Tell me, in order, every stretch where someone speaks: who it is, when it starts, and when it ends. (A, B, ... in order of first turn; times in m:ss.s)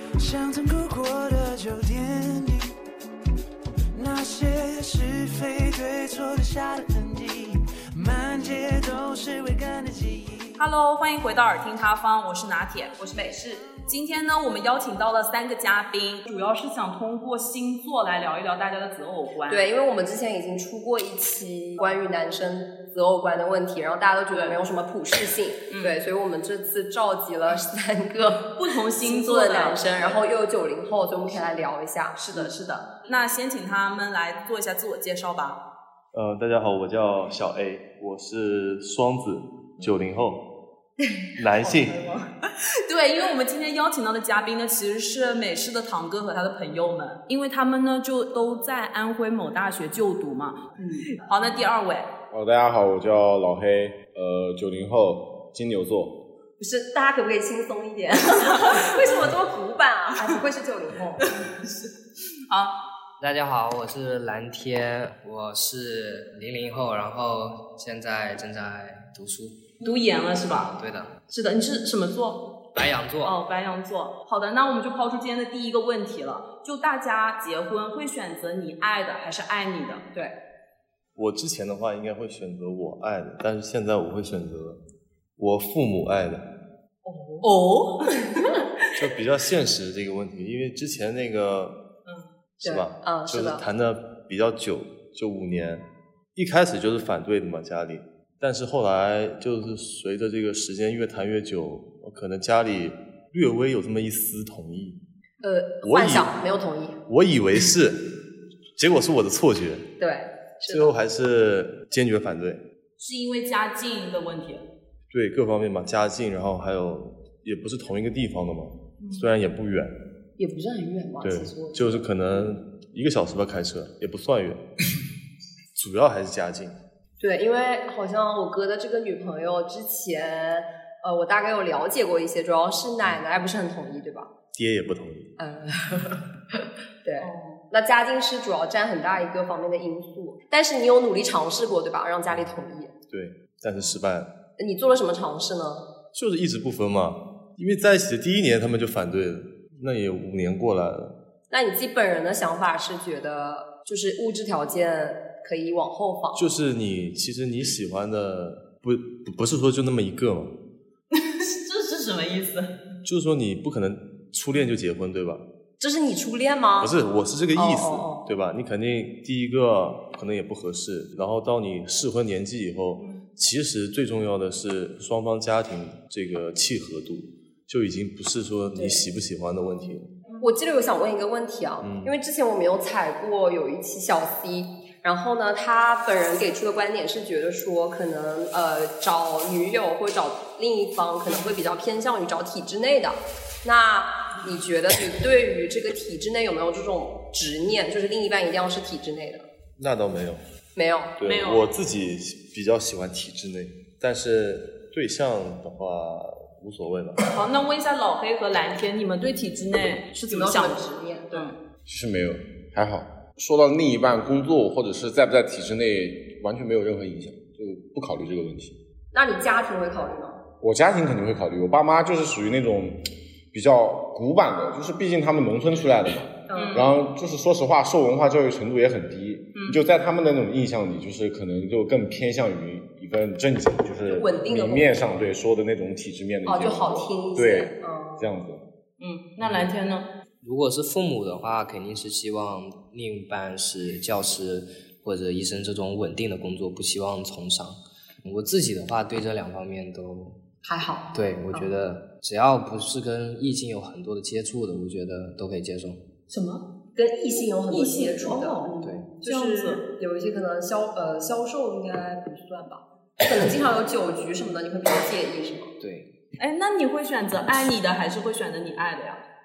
0:00.2-0:02.7 A
0:03.9-0:10.6 A
0:10.6-0:13.0 B
0:13.0-0:13.6 C
0:13.9-0:19.7 B
0:19.5-0:32.5 C
0:24.3-0:24.6 B
0:25.7-0:26.0 B
0:28.6-0:30.2 B
0:32.2-0:35.6 B
0:36.1-0:40.4 D
0:41.4-0:42.0 D
0:41.6-0:52.1 B
0:50.8-0:51.1 C
0:52.3-0:56.2 E
0:56.6-1:01.3 C
0:58.7-0:59.2 B
1:01.2-1:01.9 B
1:02.5-1:02.8 B
1:03.2-1:09.6 F
1:09.8-1:10.7 B
1:10.5-1:11.1 F
1:11.3-1:12.4 B
1:12.8-1:13.3 F
1:13.2-1:20.0 B
1:21.2-1:24.8 D
1:25.4-1:26.5 D
1:27.0-1:27.5 C
1:27.4-1:28.6 B
1:29.0-1:31.8 D
1:32.6-1:45.0 D
1:32.6-1:33.6 C
1:45.4-1:47.0 C
1:45.8-1:46.3 D
1:47.1-1:48.1 D
1:48.8-1:49.9 D
1:50.0-1:51.0 C
1:50.6-1:52.6 D
1:53.0-1:54.6 B
1:55.1-2:00.0 D
1:59.0-1:59.3 B
2:00.4-2:02.5 C
2:01.2-2:04.6 D
2:05.8-2:06.8 D
2:07.2-2:14.3 C
2:14.5-2:15.3 D
2:15.4-2:22.9 C
2:17.2-2:17.6 B
2:23.1-2:24.3 D
2:24.6-2:25.9 C
2:26.1-2:31.2 D
2:31.5-2:36.4 C
2:36.3-2:40.6 D
2:41.1-2:42.7 B
2:43.0-2:45.4 D
2:45.8-2:47.0 C
2:46.8-3:00.1 D
2:47.5-2:48.2 C
2:53.0-2:53.3 B
2:58.8-2:59.0 C
3:00.3-3:00.5 B
3:00.4-3:19.5 C
3:01.8-3:02.1 D
3:19.8-3:20.4 D
3:20.8-3:21.2 C
3:21.2-3:27.3 D
3:21.2-3:21.7 B
3:27.3-3:31.6 B
3:30.3-3:31.5 C
3:31.9-3:38.8 E
3:39.1-3:40.4 C
3:40.6-3:58.6 E
3:46.5-3:47.0 C
3:46.5-3:46.9 B
3:49.6-3:49.8 B
3:54.1-3:55.0 C
3:56.4-3:58.3 C
3:59.0-4:00.1 B
4:00.4-4:10.4 F
4:10.6-4:11.7 C
4:11.1-4:16.0 F
4:16.3-4:16.6 B
4:17.0-4:25.7 C
4:17.4-4:19.8 B
4:18.8-4:19.1 F
4:25.8-4:26.1 F
4:26.4-4:29.2 B